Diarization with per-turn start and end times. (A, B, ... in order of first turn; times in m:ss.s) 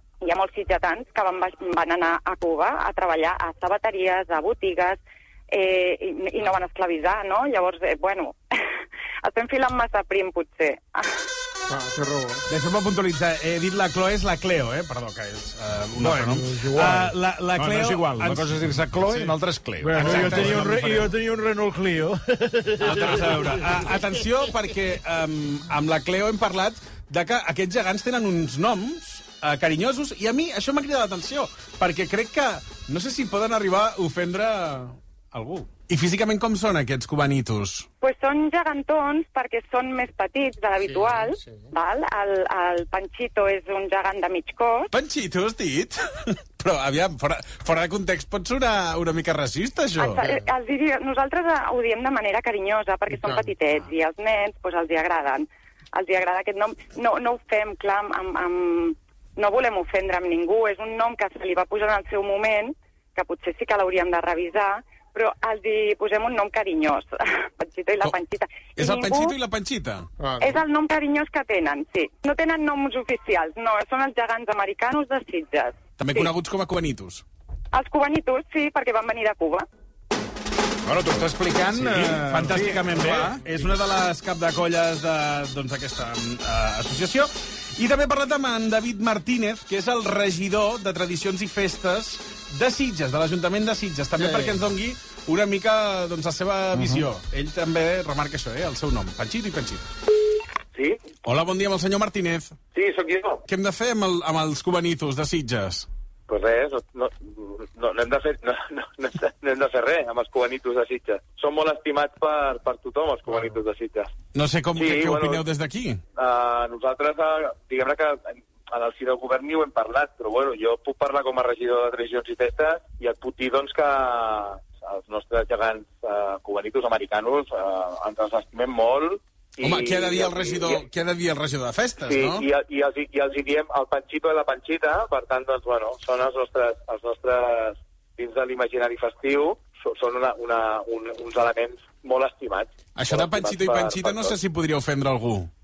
0:00.2-0:08.4 A
0:09.2-0:11.1 A
0:11.7-0:12.4 B
0:12.5-0:19.4 C
0:16.0-0:16.9 D
0:16.5-0:17.1 E
0:17.6-0:20.7 D
0:19.8-0:23.6 E
0:20.0-0:21.1 C
0:22.8-0:37.9 C
0:38.0-0:44.9 A
0:40.8-0:41.7 B
0:44.9-0:50.2 C
0:50.0-1:09.4 A
0:50.2-0:50.4 B
0:53.1-0:53.5 B
1:08.8-1:10.1 C
1:10.2-1:10.6 B
1:10.4-1:16.3 A
1:16.0-1:17.2 C
1:17.7-1:19.6 A
1:20.8-1:23.4 D
1:21.7-1:39.9 C
1:34.2-1:34.5 B
1:41.2-1:42.5 C
1:42.7-1:43.4 F
1:43.5-1:45.9 C
1:46.3-1:54.1 F
1:54.3-1:56.0 C
1:54.7-1:55.4 F
1:56.2-2:10.8 F
2:09.6-2:12.4 C
2:12.0-2:24.4 F
2:23.0-2:25.5 C